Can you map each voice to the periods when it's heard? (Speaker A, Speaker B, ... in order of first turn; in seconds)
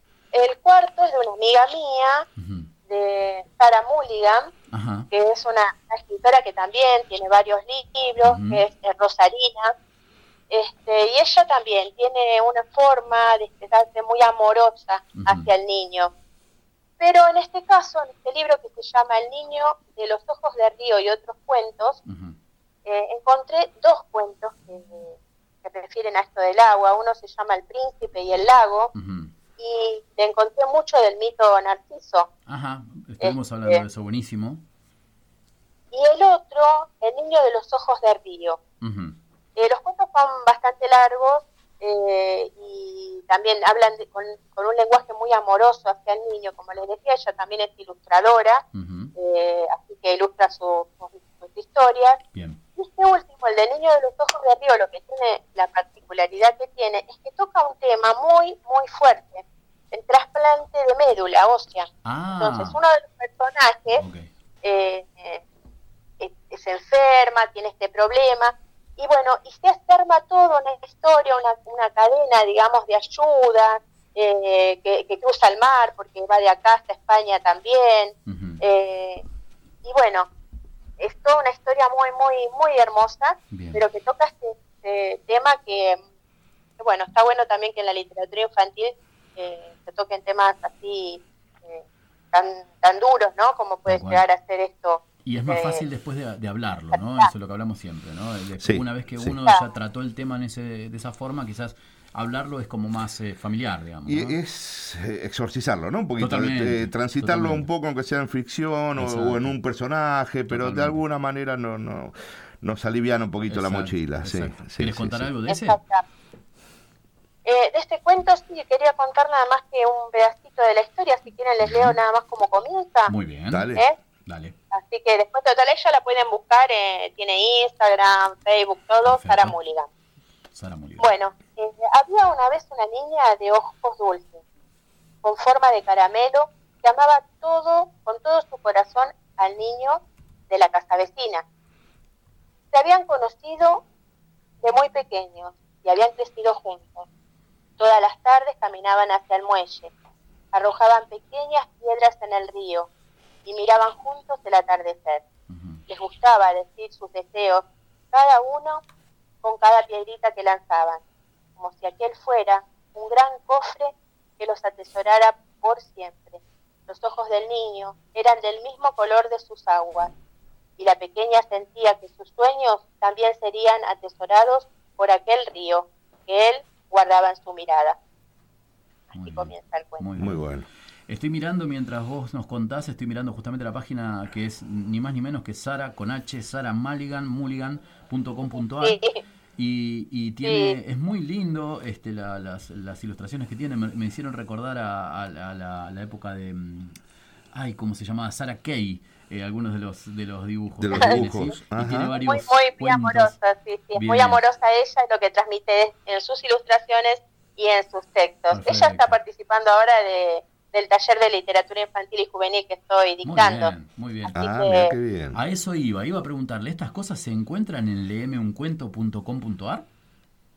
Speaker A: 0.3-2.2, 2.9-4.5, 5.1-9.7, 10.5-16.1, 17.0-22.0, 22.9-28.9, 29.6-32.3, 33.2-33.8, 35.9-38.6, 39.6-48.6, 49.2-52.2, 52.8-64.0, 64.6-65.4, 66.2-79.2, 79.8-80.3, 81.0-86.0, 86.8-95.8, 96.9-97.3, 115.5-116.0, 117.4-123.1, 124.7-129.9, 131.0-134.4, 135.2-141.4, 142.7-143.8, 144.6-147.1, 147.8-149.9, 150.5-152.9, 153.4-155.2, 155.9-158.8, 159.4-161.0, 161.6-170.1, 170.8-178.0, 179.2-180.1, 188.8-189.2, 190.4-190.8, 200.9-201.2, 202.1-213.7, 214.4-214.9
Speaker B: 2.4-2.7, 4.7-5.1, 8.2-8.6, 15.2-15.5, 22.1-22.4, 28.9-29.3, 32.5-34.6, 38.8-39.2, 48.7-49.1, 52.3-52.6, 62.0-62.8, 64.0-64.3, 78.3-78.6, 83.5-83.8, 93.9-94.2, 95.2-104.4, 106.2-107.7, 109.0-109.5, 110.5-111.0, 113.5-115.8, 121.6-122.0, 123.1-123.7, 124.2-124.5, 129.1-129.6, 130.6-131.1, 155.5-155.8, 179.1-180.5, 181.1-189.0, 189.6-197.0, 197.5-203.3, 203.9-204.4, 208.5-209.2, 213.2-214.4, 215.3-219.9
Speaker C: 98.6-99.4, 104.0-115.3, 123.5-123.8, 180.2-180.7, 200.8-202.1, 214.3-215.4